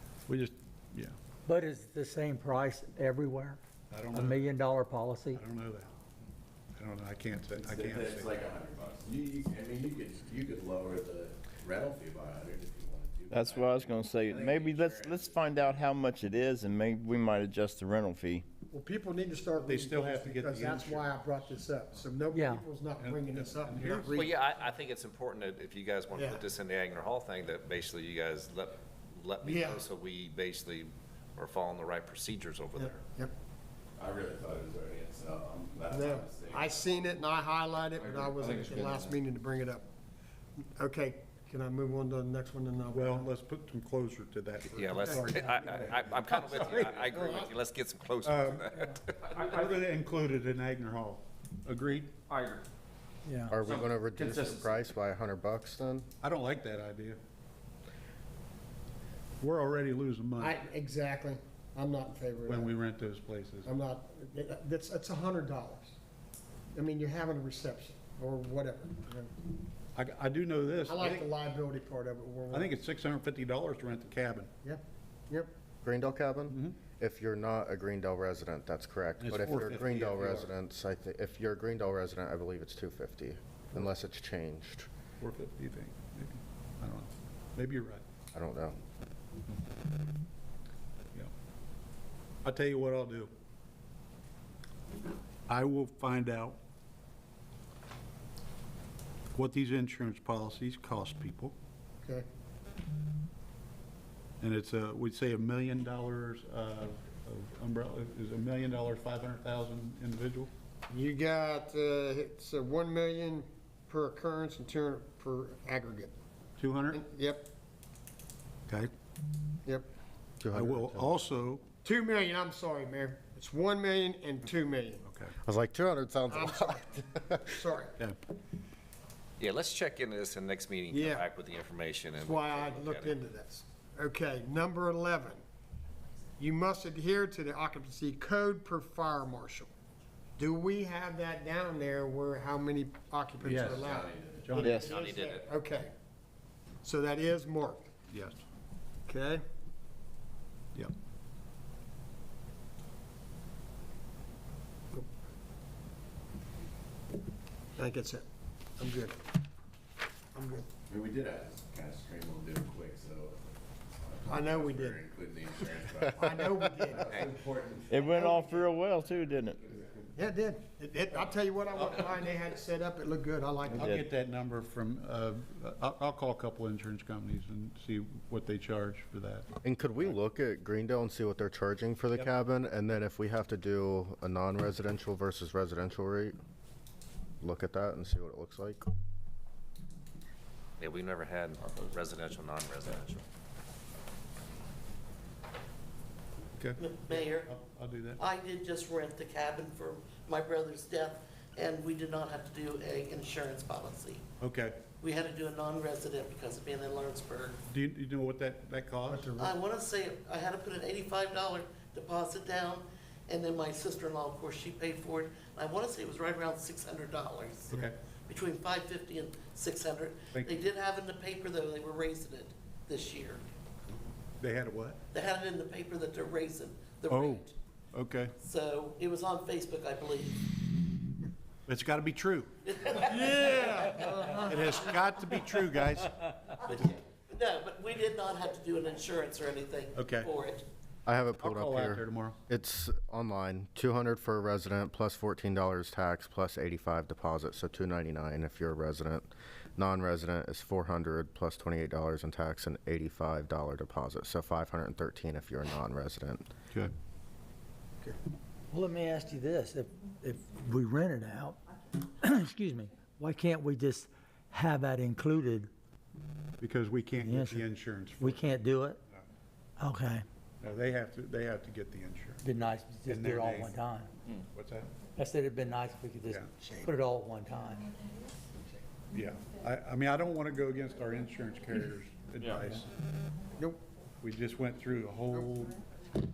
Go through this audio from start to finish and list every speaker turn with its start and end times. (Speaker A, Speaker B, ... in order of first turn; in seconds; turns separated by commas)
Speaker A: 0.3-1.1, Speaker B: 1.4-3.6, Speaker A: 3.9-4.4, Speaker B: 4.1-5.4, Speaker A: 5.3-6.0, Speaker A: 6.8-8.4, Speaker C: 7.5-15.9, Speaker D: 13.3-18.4, Speaker E: 18.7-24.3, Speaker A: 19.6-21.6, Speaker B: 22.3-22.6, Speaker A: 23.0-24.2, Speaker F: 24.1-32.9, Speaker E: 26.1-26.5, Speaker E: 29.4-29.8, Speaker E: 32.8-33.3, Speaker C: 34.0-37.1, Speaker E: 35.9-39.9, Speaker C: 38.1-39.0, Speaker G: 38.4-38.8, Speaker E: 40.7-43.2, Speaker A: 42.9-47.4, Speaker F: 44.7-48.9, Speaker E: 45.0-45.3, Speaker E: 47.1-47.5, Speaker A: 48.2-48.7, Speaker A: 49.3-52.1, Speaker G: 49.3-49.7, Speaker G: 52.3-52.6, Speaker B: 53.2-53.6, Speaker H: 53.5-56.1, Speaker G: 53.6-54.7, Speaker A: 56.2-57.2, Speaker A: 59.4-60.5, Speaker E: 60.4-62.7, Speaker A: 62.5-63.7, Speaker E: 63.6-65.9, Speaker E: 66.7-69.3, Speaker A: 70.0-71.3, Speaker E: 70.8-72.7, Speaker A: 72.5-74.5, Speaker E: 74.6-75.5, Speaker H: 75.8-84.9, Speaker A: 76.5-76.8, Speaker A: 79.2-80.5, Speaker A: 85.2-88.0, Speaker H: 88.3-88.8, Speaker A: 92.4-93.3, Speaker A: 95.5-96.6, Speaker A: 99.3-101.5, Speaker A: 104.4-110.5, Speaker E: 110.9-116.1, Speaker A: 116.6-117.0, Speaker E: 116.9-117.5, Speaker H: 120.4-121.1, Speaker A: 120.5-121.6, Speaker E: 121.8-125.0, Speaker A: 125.0-125.3, Speaker H: 125.4-127.4, Speaker E: 126.3-127.9, Speaker F: 129.4-133.1, Speaker E: 130.9-131.2, Speaker E: 132.2-135.4, Speaker E: 136.4-139.7, Speaker E: 140.4-145.9, Speaker A: 143.4-143.9, Speaker C: 143.6-144.6, Speaker A: 144.4-144.9, Speaker F: 144.8-145.4, Speaker E: 146.8-147.9, Speaker A: 148.1-148.4, Speaker E: 149.1-149.4, Speaker E: 157.8-158.2, Speaker E: 158.8-159.2, Speaker E: 160.3-160.7, Speaker C: 160.9-168.2, Speaker E: 164.2-165.0, Speaker E: 166.2-167.3, Speaker D: 167.9-169.7, Speaker E: 167.9-168.7, Speaker E: 170.1-173.9, Speaker D: 173.7-174.0, Speaker A: 173.7-179.5, Speaker H: 179.6-186.3, Speaker H: 187.4-188.8, Speaker F: 190.8-193.2, Speaker A: 196.6-198.2, Speaker I: 196.8-197.5, Speaker I: 198.2-204.2, Speaker A: 204.4-204.8, Speaker I: 205.0-207.6, Speaker A: 207.7-209.3, Speaker E: 209.1-209.5, Speaker I: 209.4-223.4, Speaker A: 217.7-217.9, Speaker A: 224.4-225.0, Speaker I: 225.1-227.5, Speaker A: 227.1-228.3, Speaker I: 228.4-230.5, Speaker A: 231.7-233.7, Speaker I: 232.7-236.0, Speaker E: 233.0-234.8, Speaker A: 234.4-236.2, Speaker I: 236.6-240.6, Speaker A: 239.9-240.3, Speaker H: 241.1-256.4, Speaker A: 241.4-242.4, Speaker B: 258.7-265.7, Speaker A: 266.6-268.5, Speaker B: 267.2-269.0, Speaker B: 269.8-270.2, Speaker A: 270.6-272.4, Speaker B: 272.4-274.1, Speaker A: 273.0-273.7, Speaker A: 274.3-274.9, Speaker B: 275.1-277.9, Speaker E: 276.6-276.9, Speaker A: 279.1-283.0, Speaker A: 284.2-285.8